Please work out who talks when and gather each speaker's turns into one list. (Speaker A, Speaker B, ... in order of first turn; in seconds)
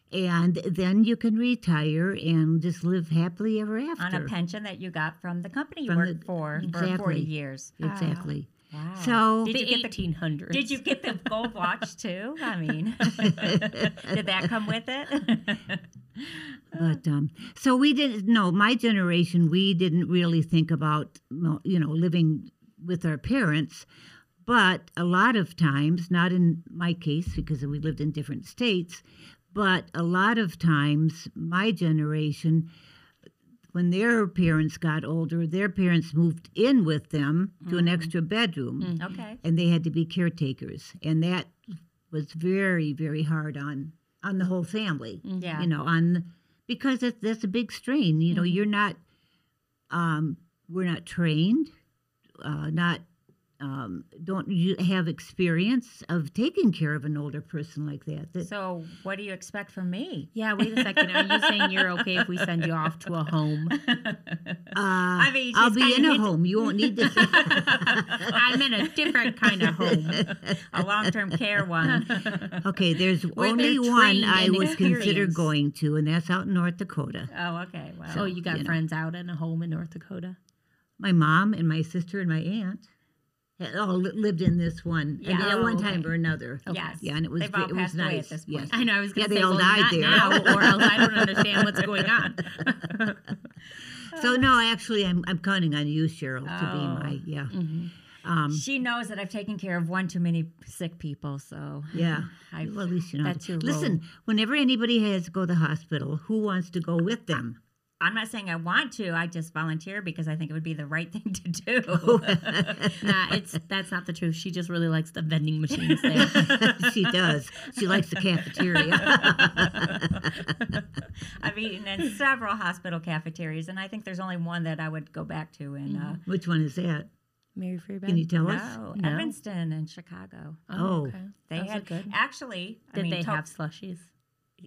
Speaker A: 0.1-4.3, 5.9-9.5, 13.5-14.1, 16.7-23.9, 24.4-32.7, 33.7-41.6, 42.1-49.0, 49.9-51.7, 52.4-53.0, 53.6-58.5, 64.7-68.3, 69.7-70.6, 72.6-77.3, 78.2-78.8, 81.0-82.9, 83.6-92.1, 94.1-97.6, 98.2-98.6, 101.9-107.6, 111.9-113.0, 116.1-120.5, 126.2-127.1, 128.1-128.8, 130.8-131.1
Speaker B: 4.0-7.7, 8.7-10.0, 10.5-16.9, 37.6-38.1, 39.0-39.4, 45.4-45.7, 58.4-62.4, 63.7-68.6, 70.2-72.6, 74.3-75.3, 77.3-78.3, 85.2-86.0, 86.7-88.9, 90.0-90.6, 96.4-97.2, 98.5-102.4, 108.0-113.0, 115.9-116.9, 118.9-119.9, 121.4-126.2, 128.4-130.6, 131.5-133.4
Speaker C: 6.6-7.0, 7.8-8.3, 9.4-10.8, 38.8-39.1, 45.2-45.6, 48.3-48.6, 60.3-63.8, 67.1-70.3, 71.9-72.5, 73.3-75.5, 78.1-80.4, 85.3-86.1, 86.7-87.0, 88.7-93.3, 97.5-97.9, 102.0-104.0, 113.0-116.5, 118.5-119.4, 125.9-126.2, 127.5-129.3, 130.7-132.1, 132.9-134.1